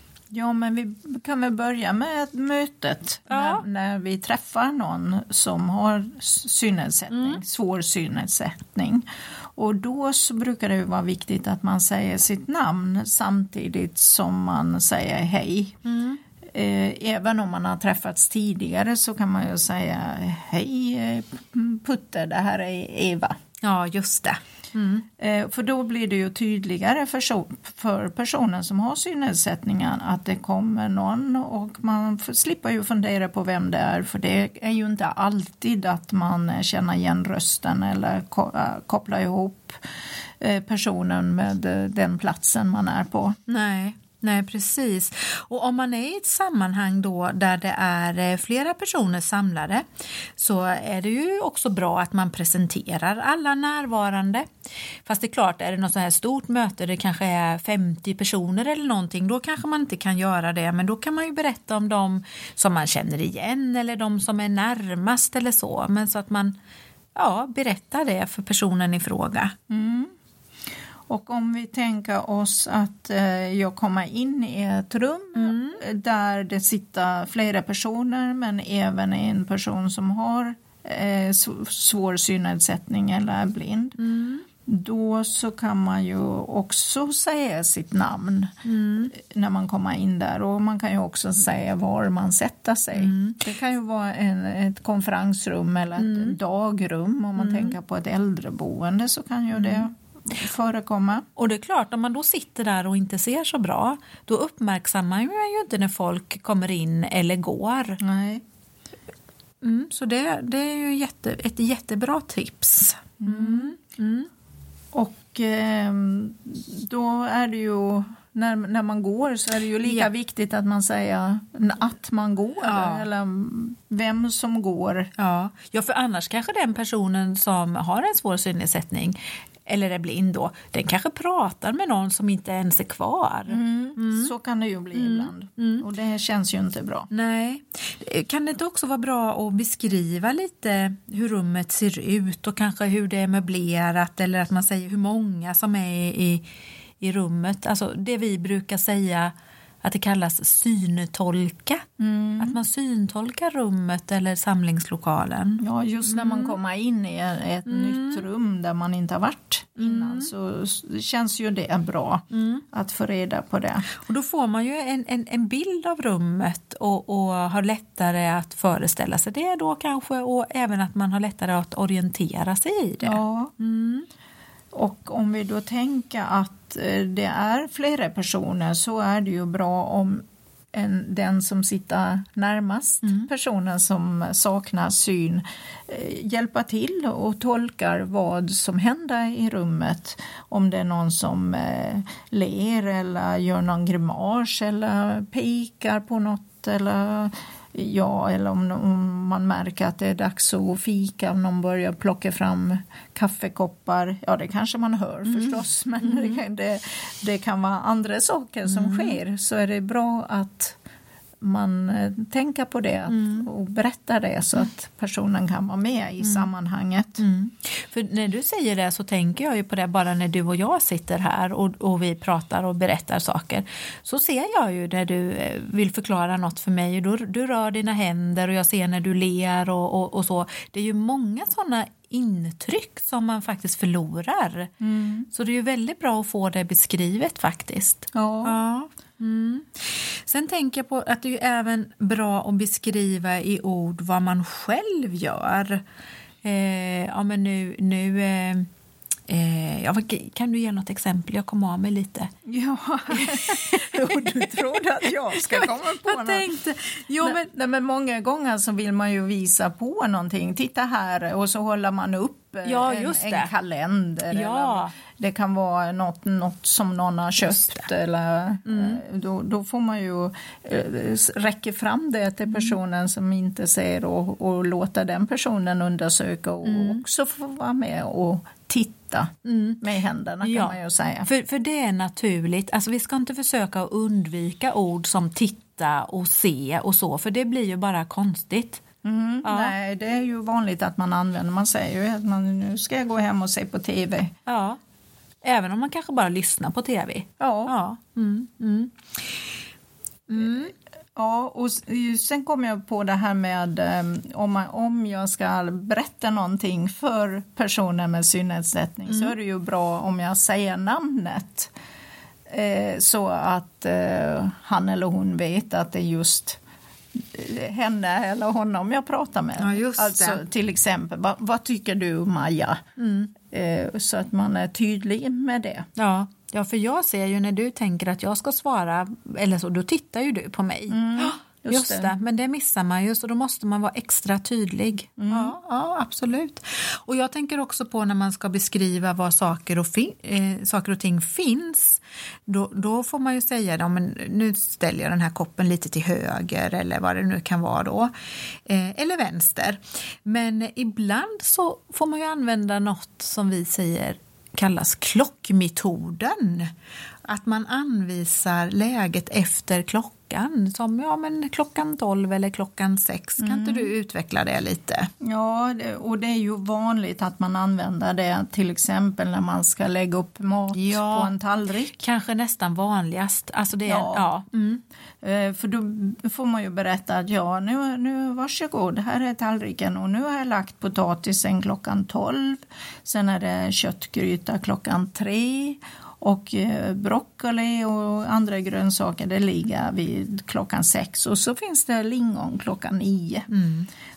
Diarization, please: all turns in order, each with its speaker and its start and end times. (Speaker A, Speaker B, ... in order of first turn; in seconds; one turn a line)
Speaker A: 0.3-15.8
Speaker B: 3.3-3.6
Speaker B: 7.1-7.4
Speaker B: 15.8-16.2
Speaker A: 16.5-23.4
Speaker B: 23.6-25.1
Speaker A: 25.2-39.8
Speaker A: 40.4-43.4
Speaker B: 43.5-49.9
Speaker B: 50.4-54.5
Speaker B: 55.0-66.6
Speaker B: 67.2-69.5
Speaker A: 69.7-70.1
Speaker A: 71.1-84.0
Speaker B: 75.3-75.8
Speaker B: 84.0-84.5
Speaker A: 84.7-88.5
Speaker B: 88.6-89.1
Speaker A: 89.1-101.3
Speaker B: 92.9-93.4
Speaker B: 96.0-96.4
Speaker B: 97.4-97.7
Speaker B: 99.5-99.8
Speaker B: 101.4-108.0
Speaker A: 108.0-108.4
Speaker B: 109.6-114.3
Speaker A: 113.2-113.8
Speaker A: 114.9-125.1
Speaker B: 119.8-120.1
Speaker B: 122.6-123.0
Speaker B: 125.2-134.3
Speaker A: 133.5-137.1
Speaker B: 134.9-135.8
Speaker B: 137.1-146.4
Speaker B: 147.0-151.8
Speaker A: 152.0-152.6
Speaker B: 152.4-156.6
Speaker A: 155.6-163.9
Speaker B: 157.7-158.2
Speaker B: 159.8-160.3
Speaker B: 162.3-162.6
Speaker B: 164.0-174.1
Speaker A: 173.0-173.5
Speaker A: 174.7-210.8
Speaker B: 205.3-206.4
Speaker B: 208.7-209.2
Speaker A: 211.4-217.2
Speaker B: 213.1-213.5
Speaker B: 216.2-216.5
Speaker B: 217.2-234.7
Speaker A: 234.8-235.3
Speaker B: 235.3-245.8
Speaker A: 238.1-238.6
Speaker B: 246.4-248.7
Speaker B: 249.3-252.3
Speaker A: 252.4-256.5
Speaker B: 253.1-254.6
Speaker B: 255.3-257.4
Speaker A: 257.2-281.3
Speaker B: 262.6-263.5
Speaker B: 264.3-264.9
Speaker B: 267.5-267.9
Speaker B: 268.7-269.0
Speaker B: 272.5-272.8
Speaker B: 276.6-277.0
Speaker B: 279.4-279.8
Speaker B: 280.4-288.8
Speaker A: 289.0-294.4
Speaker B: 289.4-289.7
Speaker B: 294.5-294.8
Speaker B: 295.4-299.2
Speaker A: 297.4-297.7
Speaker B: 300.3-300.7
Speaker A: 301.1-311.7
Speaker B: 309.1-309.3
Speaker A: 312.5-316.6
Speaker A: 317.1-322.8
Speaker B: 319.6-320.4
Speaker B: 323.0-323.3
Speaker A: 323.4-325.9
Speaker B: 326.0-348.1
Speaker A: 330.9-332.1
Speaker A: 335.2-335.6
Speaker B: 348.7-356.7
Speaker B: 357.3-365.1
Speaker A: 363.4-363.9
Speaker A: 365.2-371.9
Speaker B: 370.7-371.3
Speaker B: 371.9-374.8
Speaker A: 373.9-374.3
Speaker A: 375.2-393.5
Speaker B: 393.5-393.9